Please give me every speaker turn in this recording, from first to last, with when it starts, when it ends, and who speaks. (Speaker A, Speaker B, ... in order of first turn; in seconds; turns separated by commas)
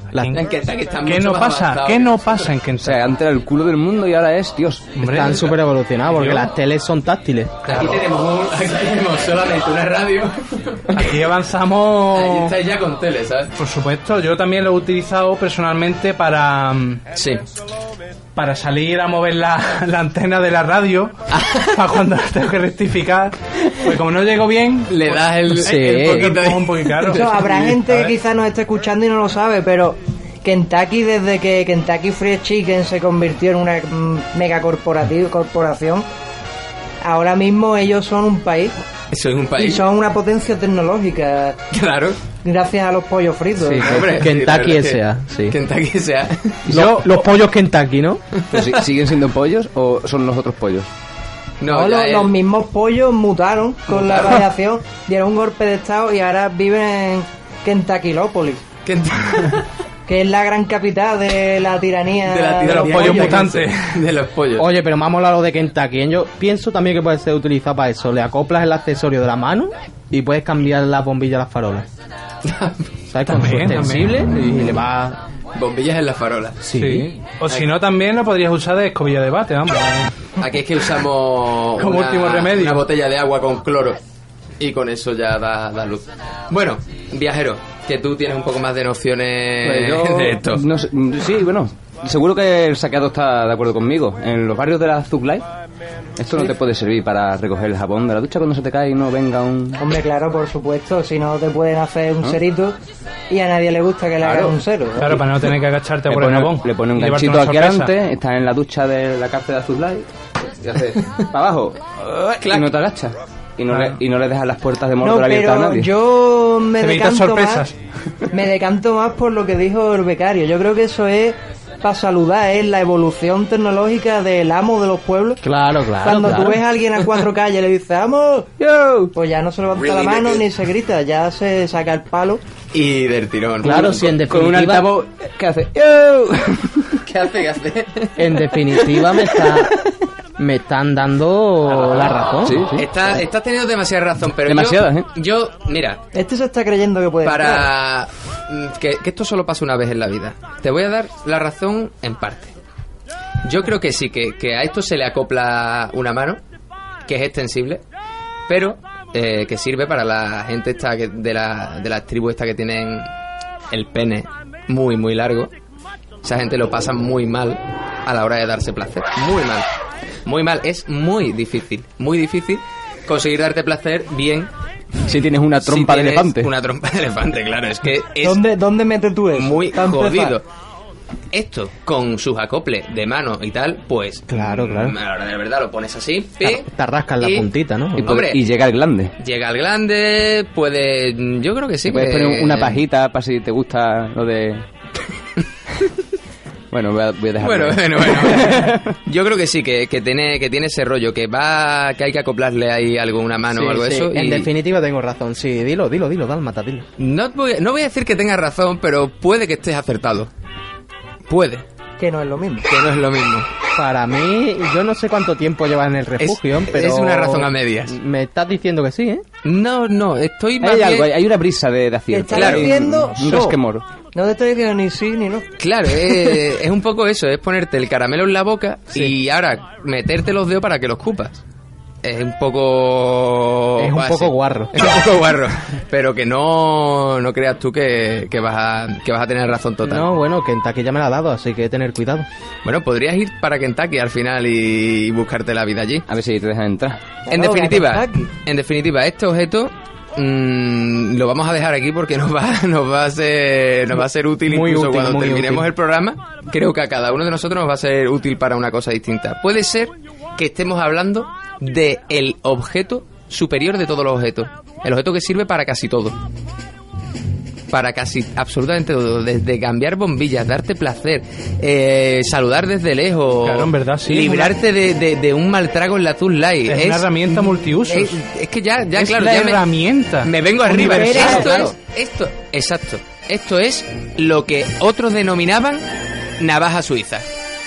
Speaker A: 0.1-0.4, Speaker B: 0.3-2.5, Speaker C: 1.0-3.0, Speaker D: 2.8-5.2, Speaker C: 5.0-6.5, Speaker A: 5.0-7.9, Speaker B: 7.7-11.2, Speaker C: 10.9-12.6, Speaker B: 12.1-13.5, Speaker C: 13.6-17.0, Speaker B: 17.1-17.4, Speaker C: 18.4-21.1, Speaker B: 21.3-21.8, Speaker C: 21.7-28.1, Speaker B: 24.9-27.7, Speaker A: 25.6-26.4, Speaker E: 27.1-36.1, Speaker E: 37.0-38.8, Speaker B: 39.1-39.9, Speaker E: 39.6-41.6, Speaker B: 41.7-42.2, Speaker E: 42.4-44.0, Speaker A: 43.6-45.6, Speaker B: 43.8-46.6, Speaker A: 46.7-48.2, Speaker C: 46.7-47.3, Speaker D: 48.5-50.9, Speaker B: 51.6-52.3, Speaker E: 51.7-58.6, Speaker B: 53.9-54.4, Speaker B: 58.9-59.7, Speaker E: 60.1-63.5, Speaker B: 62.3-64.7, Speaker C: 62.7-64.0, Speaker A: 64.6-71.9, Speaker B: 72.4-72.9, Speaker A: 73.1-75.2, Speaker C: 73.3-74.2, Speaker B: 75.5-76.6, Speaker A: 76.6-77.1, Speaker C: 76.8-80.1, Speaker B: 80.4-84.0, Speaker C: 81.8-82.9, Speaker B: 84.6-90.6, Speaker D: 89.6-95.5, Speaker D: 96.2-99.9, Speaker E: 99.8-102.8, Speaker E: 103.3-105.2, Speaker D: 104.2-105.5, Speaker C: 105.0-107.9, Speaker D: 106.1-111.8, Speaker B: 112.0-112.8, Speaker D: 112.4-115.9, Speaker E: 115.0-117.7, Speaker C: 116.8-117.7, Speaker E: 118.3-125.4, Speaker A: 125.4-126.6, Speaker E: 126.0-128.5, Speaker D: 128.6-129.1, Speaker E: 129.1-132.4, Speaker B: 132.7-134.2, Speaker A: 133.6-134.9, Speaker D: 133.7-137.0, Speaker B: 137.0-138.5, Speaker A: 138.2-139.8, Speaker A: 140.4-142.7, Speaker B: 141.7-146.0, Speaker D: 142.4-142.9, Speaker D: 144.4-145.1, Speaker E: 146.1-147.7, Speaker B: 147.2-152.6, Speaker B: 153.4-156.4, Speaker B: 157.1-157.8, Speaker B: 158.5-163.1, Speaker B: 163.7-165.5, Speaker B: 166.2-169.7, Speaker B: 170.2-174.5, Speaker D: 175.1-176.5, Speaker B: 175.6-178.4, Speaker E: 178.2-180.4, Speaker B: 179.4-180.4, Speaker B: 181.3-186.7, Speaker A: 184.3-185.0, Speaker A: 186.4-188.2, Speaker B: 187.2-188.4, Speaker D: 188.0-189.1, Speaker B: 189.2-192.8, Speaker D: 191.9-194.7, Speaker D: 196.7-199.0, Speaker B: 197.4-204.5, Speaker A: 203.5-206.8, Speaker B: 207.0-210.3, Speaker B: 211.3-211.7, Speaker E: 212.0-212.7, Speaker B: 212.6-213.5, Speaker A: 213.8-219.2, Speaker B: 216.2-218.0, Speaker B: 219.4-221.1, Speaker D: 220.6-223.8, Speaker E: 222.1-223.6, Speaker B: 222.3-222.7, Speaker E: 224.1-225.5, Speaker B: 225.6-231.4, Speaker B: 232.0-240.1, Speaker A: 233.8-235.0, Speaker A: 239.8-242.3, Speaker B: 242.7-246.1, Speaker D: 246.1-247.0, Speaker E: 247.3-248.3, Speaker B: 247.3-266.2, Speaker A: 254.5-255.7, Speaker B: 267.7-279.6, Speaker C: 273.4-274.6, Speaker C: 276.7-278.2, Speaker C: 278.9-280.4, Speaker B: 280.2-285.9, Speaker A: 280.7-281.7, Speaker E: 280.7-281.7, Speaker B: 286.4-287.2